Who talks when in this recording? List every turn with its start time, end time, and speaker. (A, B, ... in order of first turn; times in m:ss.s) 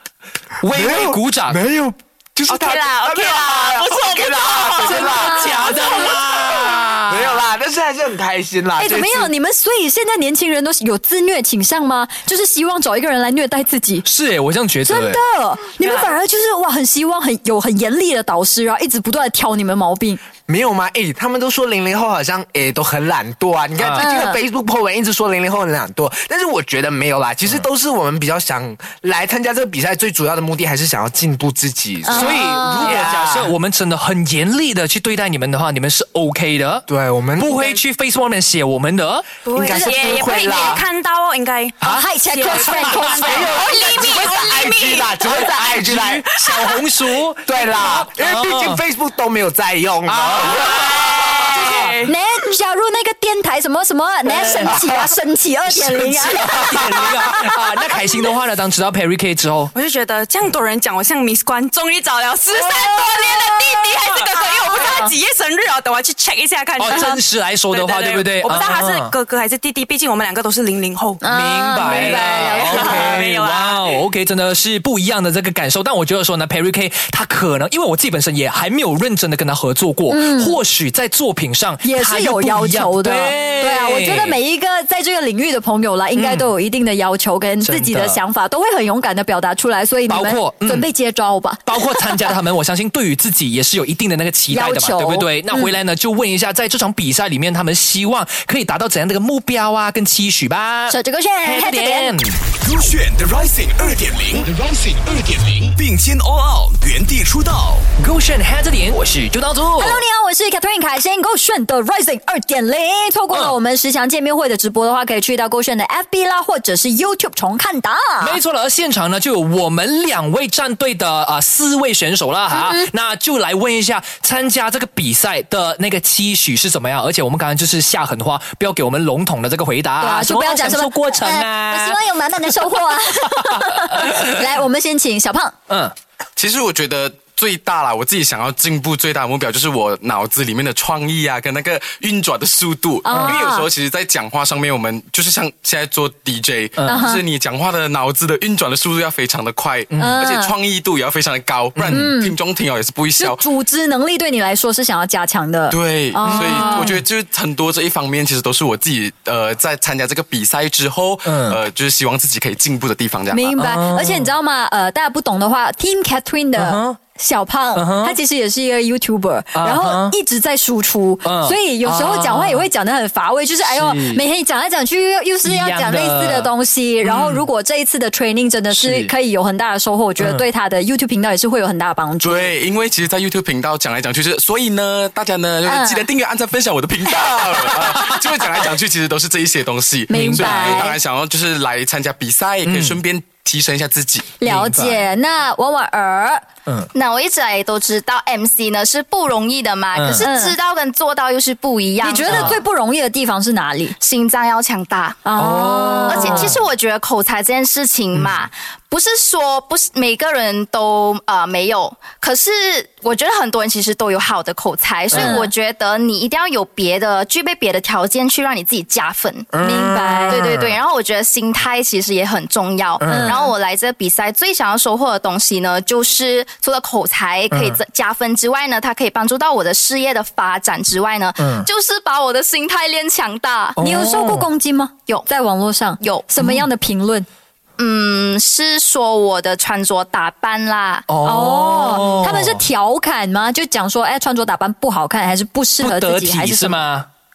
0:00.6-0:01.6 A
0:00.7-0:05.6 B
0:02.5-0:06.1 C
0:04.8-0:06.0 D
0:04.9-0:07.4 A
0:07.1-0:09.3 B
0:08.8-0:14.1 D
0:14.0-0:15.2 A
0:14.8-0:20.2 D
0:15.8-0:16.1 C
0:20.5-0:33.5 B
0:23.8-0:24.1 A
0:24.0-0:24.4 D
0:32.0-0:33.1 D
0:32.1-0:39.4 A
0:36.9-0:37.8 B
0:39.4-0:41.8 C
0:39.5-0:40.8 B
0:39.8-0:40.7 D
0:41.8-0:43.4 A
0:41.8-0:43.9 D
0:42.3-0:45.6 C
0:43.2-0:46.3 B
0:45.5-0:48.8 A
0:47.5-0:51.5 B
0:50.1-0:52.0 A
0:51.0-0:52.1 C
0:52.1-0:58.3 D
0:54.2-0:55.1 A
0:55.7-0:59.7 A
0:59.7-1:11.2 C
1:02.6-1:05.1 D
1:06.8-1:09.1 A
1:11.2-1:13.3 D
1:11.2-1:24.4 A
1:11.8-1:14.0 C
1:20.1-1:20.6 D
1:21.8-1:32.3 D
1:26.2-1:26.5 A
1:27.6-1:28.2 A
1:30.1-1:30.9 A
1:31.7-1:42.4 A
1:34.5-1:35.8 D
1:40.9-1:42.2 D
1:42.6-1:47.9 E
1:48.0-1:50.0 A
1:49.8-1:58.4 D
1:53.3-1:53.6 A
1:58.2-2:12.8 A
2:02.5-2:02.9 D
2:10.0-2:15.6 D
2:13.3-2:14.4 A
2:15.7-2:15.9 A
2:16.4-2:33.4 F
2:23.1-2:23.7 D
2:23.1-2:23.4 A
2:26.8-2:27.1 A
2:26.9-2:27.2 D
2:29.9-2:30.2 A
2:30.0-2:30.5 D
2:31.8-2:32.1 A
2:31.9-2:32.4 D
2:33.2-2:37.0 D
2:35.7-2:43.6 F
2:36.3-2:37.0 A
2:41.2-2:41.6 A
2:43.3-3:02.5 D
2:43.6-2:44.3 A
2:46.6-2:47.0 A
2:47.8-2:48.2 A
2:49.6-2:50.2 A
2:51.2-2:52.7 A
2:53.6-2:54.2 A
2:55.4-2:56.5 A
2:57.0-2:57.4 A
2:58.7-2:59.1 A
3:00.2-3:00.4 A
3:02.2-3:14.4 F
3:05.7-3:06.0 D
3:10.1-3:11.0 D
3:10.2-3:10.8 A
3:12.6-3:13.0 A
3:14.4-3:16.5 D
3:14.4-3:15.1 A
3:16.9-3:22.6 G
3:20.0-3:20.3 A
3:20.2-3:20.6 D
3:22.0-3:24.0 D
3:22.3-3:22.6 A
3:24.0-3:25.3 G
3:25.2-3:26.6 D
3:25.4-3:26.6 A
3:26.1-3:53.8 G
3:35.1-3:35.4 A
3:35.1-3:35.5 D
3:39.5-3:40.8 A
3:39.6-3:40.5 D
3:43.0-3:43.4 A
3:43.1-3:43.5 D
3:47.5-3:47.8 A
3:51.4-3:51.7 A
3:53.8-3:54.5 A
3:53.8-3:57.3 D
3:56.0-3:56.3 G
3:56.4-3:56.7 A
3:57.8-4:01.1 G
4:01.1-4:02.6 A
4:01.2-4:06.8 D
4:05.8-4:07.1 A